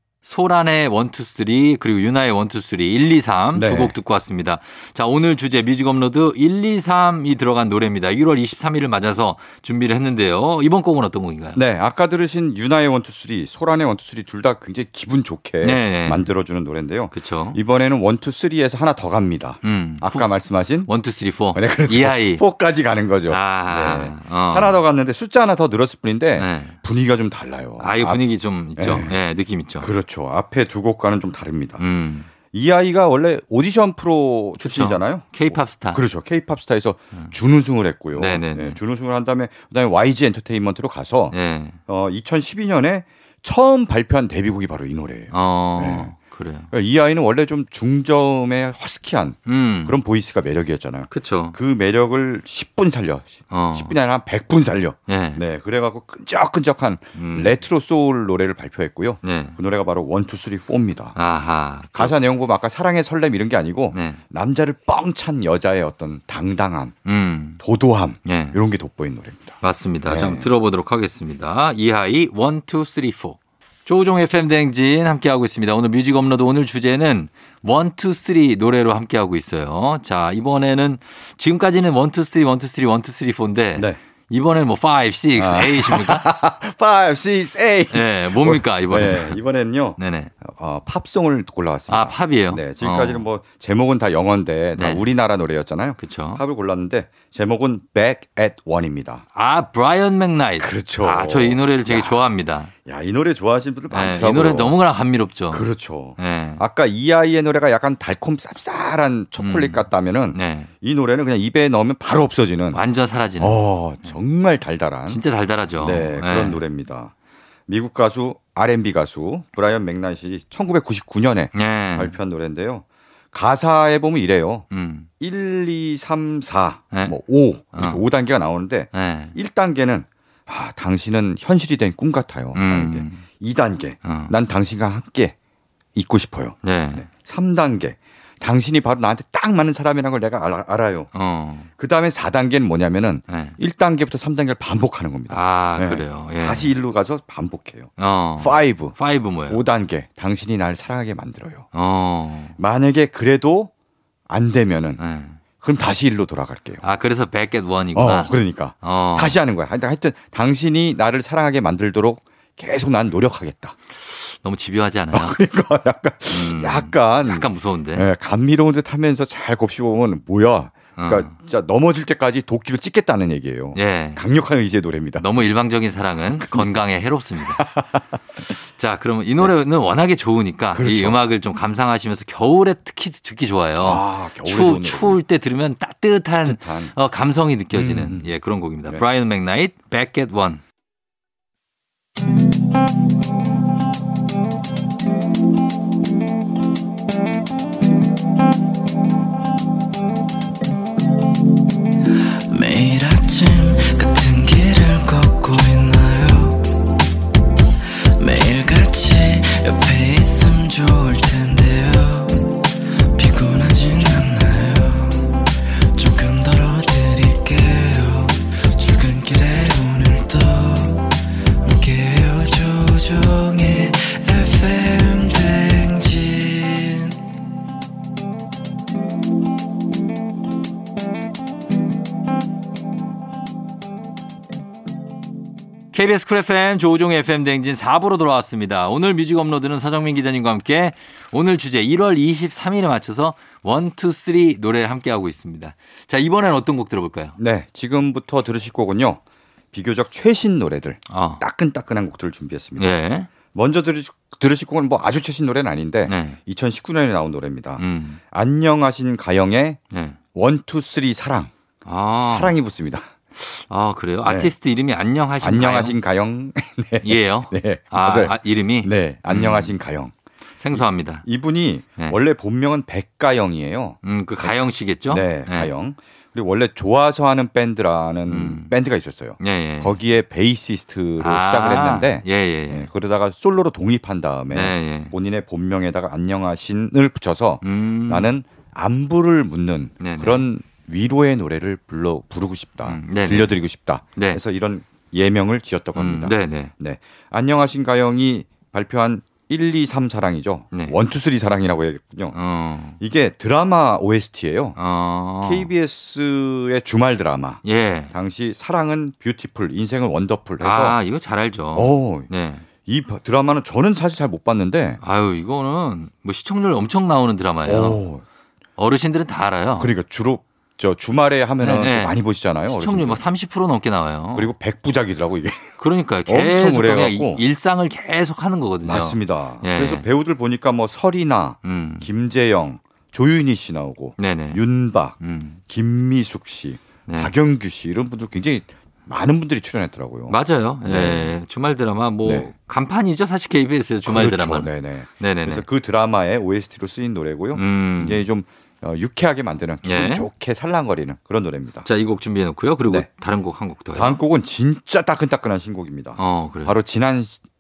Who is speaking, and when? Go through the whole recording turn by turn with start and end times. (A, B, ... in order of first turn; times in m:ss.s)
0:00.2-0:11.6 A
0:03.5-0:04.0 B
0:11.6-0:20.9 B
0:15.6-0:16.3 A
0:17.1-0:17.6 A
0:19.6-0:20.3 A
0:20.9-0:22.4 A
0:21.5-0:28.2 B
0:23.3-0:24.8 A
0:26.4-0:26.8 A
0:27.8-0:29.9 A
0:28.8-0:29.2 B
0:29.8-0:31.8 B
0:31.8-0:32.3 A
0:32.4-0:41.4 B
0:34.6-0:36.0 A
0:38.1-0:38.8 A
0:41.3-0:41.8 A
0:41.9-0:46.1 B
0:45.3-0:46.7 A
0:46.7-1:01.2 B
0:49.4-0:50.0 A
0:51.1-0:51.6 A
0:53.5-0:54.0 A
0:55.1-0:55.4 A
0:57.1-0:57.5 A
0:59.2-0:59.6 A
1:01.1-1:02.1 A
1:02.0-1:07.0 B
1:03.9-1:04.2 A
1:07.0-1:07.6 A
1:07.6-1:10.5 B
1:08.2-1:08.6 A
1:09.6-1:26.2 A
1:25.4-1:39.2 B
1:27.9-1:29.4 A
1:30.0-1:30.3 A
1:31.9-1:33.3 A
1:34.8-1:35.0 A
1:36.0-1:36.4 A
1:39.4-1:42.7 A
1:40.6-1:42.2 B
1:42.8-1:44.8 B
1:43.9-1:46.6 A
1:45.5-1:52.8 B
1:49.4-1:50.7 A
1:52.7-1:54.1 A
1:53.4-1:55.2 B
1:55.1-1:56.6 A
1:55.8-1:57.1 B
1:57.7-2:04.6 B
2:01.5-2:02.1 A
2:04.7-2:05.1 A
2:05.2-2:15.4 B
2:06.9-2:07.2 A
2:07.7-2:08.0 A
2:08.9-2:09.4 A
2:12.5-2:13.3 A
2:14.0-2:14.4 A
2:16.0-2:21.1 B
2:16.6-2:17.1 A
2:21.1-2:21.7 A
2:21.8-2:31.7 B
2:23.3-2:23.6 A
2:25.3-2:26.7 A
2:28.0-2:29.6 A
2:31.7-2:32.6 A
2:32.6-2:33.7 B
2:34.3-2:35.0 B
2:35.0-2:35.4 A
2:35.6-2:36.8 B
2:36.8-2:39.4 A
2:38.0-2:43.8 B
2:43.9-2:45.4 A
2:45.1-2:55.3 B
2:46.3-2:48.1 A
2:51.0-2:51.4 A
2:53.8-2:54.2 A
2:55.2-2:57.6 A
2:56.4-2:56.8 B
2:57.5-2:58.0 B
2:58.6-3:10.6 A
3:00.7-3:01.2 B
3:03.8-3:05.2 B
3:06.4-3:06.9 B
3:07.7-3:08.3 B
3:22.5-3:26.7 C
3:28.2-3:32.6 C
3:33.1-3:35.4 C
3:36.0-3:41.1 C
3:41.6-3:47.1 C
3:55.9-4:07.4 A
4:07.4-4:09.2 B
4:09.7-4:12.9 B
4:11.1-4:11.4 A
4:12.8-4:13.3 A
4:13.4-4:19.8 B
4:16.1-4:16.4 A
4:17.8-4:18.2 A
4:19.9-4:20.2 A
4:20.3-4:21.5 B
4:21.8-4:22.6 A
4:22.3-4:23.1 B
4:23.4-4:26.0 A
4:24.2-4:24.5 B
4:25.4-4:30.1 B
4:27.0-4:29.8 A
4:30.6-4:31.2 A
4:30.7-4:34.5 B
4:34.0-4:35.7 A
4:35.1-5:02.4 B
4:38.3-4:38.7 A
4:39.4-4:39.9 A
4:41.2-4:42.9 A
4:44.5-4:45.2 A
4:47.6-4:48.3 A
4:50.0-4:50.5 A
4:52.8-4:54.4 A
4:55.9-4:56.7 A
5:00.7-5:01.0 A
5:02.3-5:03.0 A
5:03.0-5:04.8 B
5:04.8-5:05.7 A
5:05.4-5:11.0 B
5:07.6-5:08.1 A
5:10.6-5:12.7 A
5:11.7-5:15.0 B
5:15.0-5:18.0 A
5:17.6-5:18.2 B
5:18.8-5:19.9 A
5:19.8-5:23.2 B
5:21.6-5:24.5 A
5:24.3-5:25.8 B
5:25.8-5:30.1 A
5:26.3-5:27.4 B
5:28.8-5:41.3 B
5:31.6-5:32.1 A
5:34.2-5:34.6 A
5:35.2-5:35.6 A
5:37.1-5:37.3 A
5:40.3-5:45.6 A
5:42.2-5:42.5 B
5:44.1-5:51.9 B
5:47.5-5:48.2 A
5:49.8-5:50.3 A
5:51.8-5:54.2 A
5:53.9-5:57.4 B
5:56.2-5:56.8 A